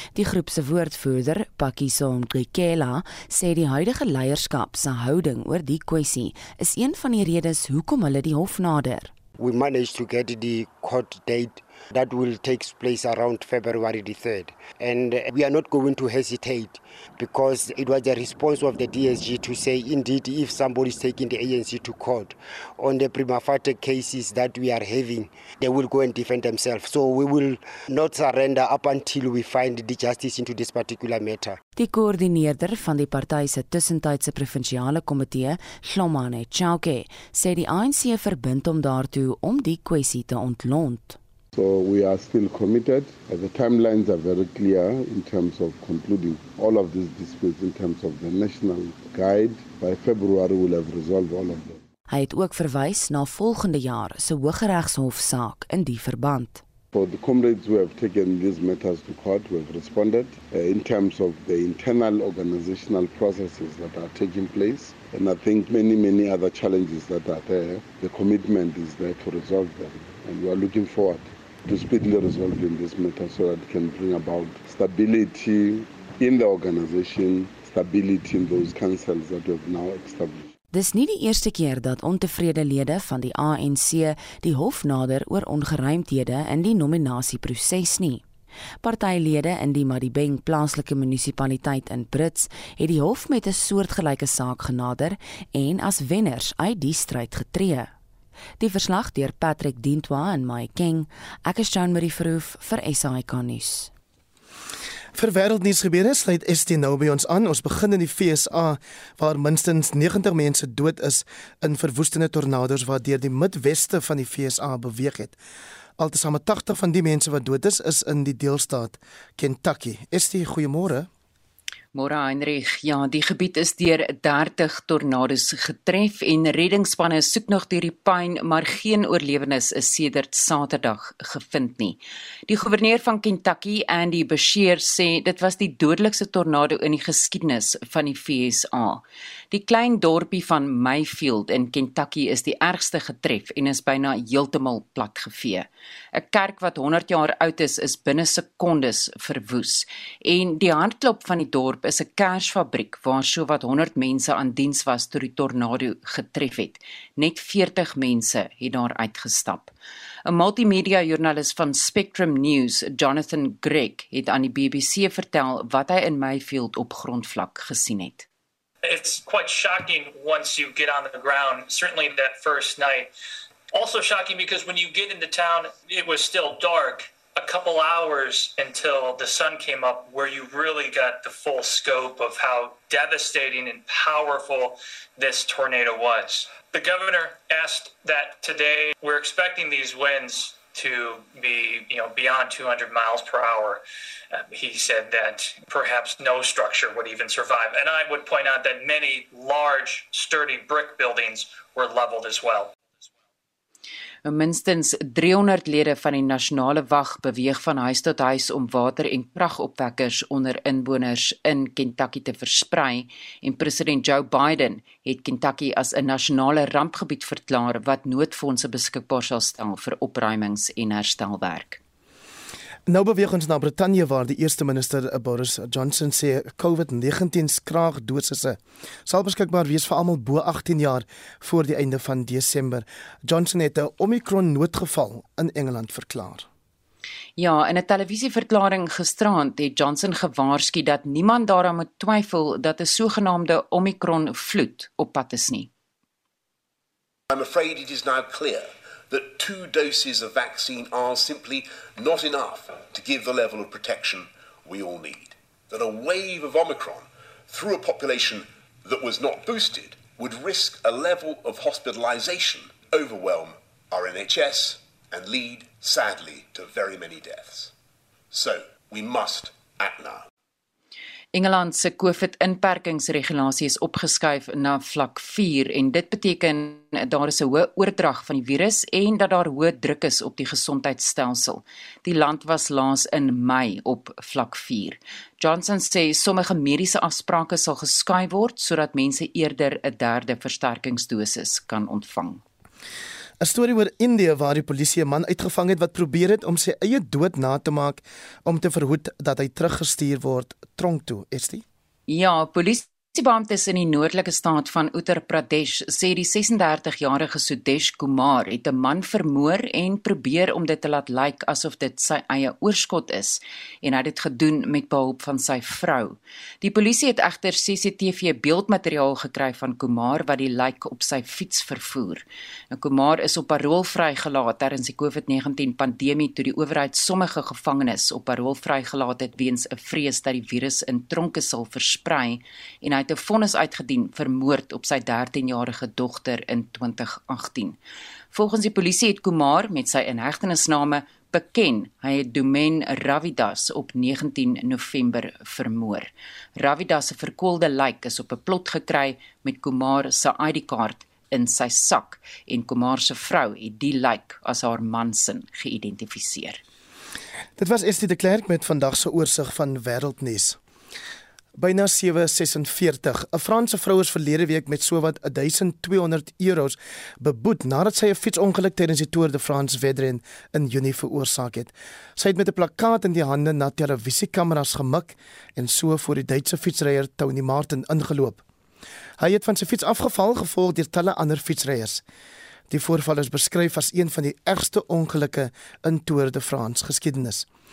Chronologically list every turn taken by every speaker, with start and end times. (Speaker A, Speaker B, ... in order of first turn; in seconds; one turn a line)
Speaker A: 0.1-9.1
Speaker B: 9.4-31.6
Speaker A: 31.8-41.2
Speaker C: 41.5-51.8
Speaker A: 52.1-56.6
Speaker C: 56.9-80.5
Speaker A: 80.7-88.2
Speaker A: 88.8-97.9
Speaker A: 98.6-103.9
Speaker D: 105.1-115.4
Speaker D: 116.0-121.1
Speaker E: 121.9-159.7
Speaker E: 160.2-168.2
Speaker F: 168.8-173.1
Speaker F: 173.7-202.8
Speaker E: 204.2-221.8
Speaker D: 222.9-236.5
Speaker E: 237.4-245.7
Speaker G: 247.3-267.7
Speaker G: 268.3-270.2
Speaker E: 271.3-292.4
Speaker D: 293.4-301.6
Speaker E: 302.1-337.8
Speaker E: 338.3-356.6
Speaker D: 357.6-360.6
Speaker D: 361.6-378.4
Speaker D: 379.2-382.0
Speaker D: 382.7-387.5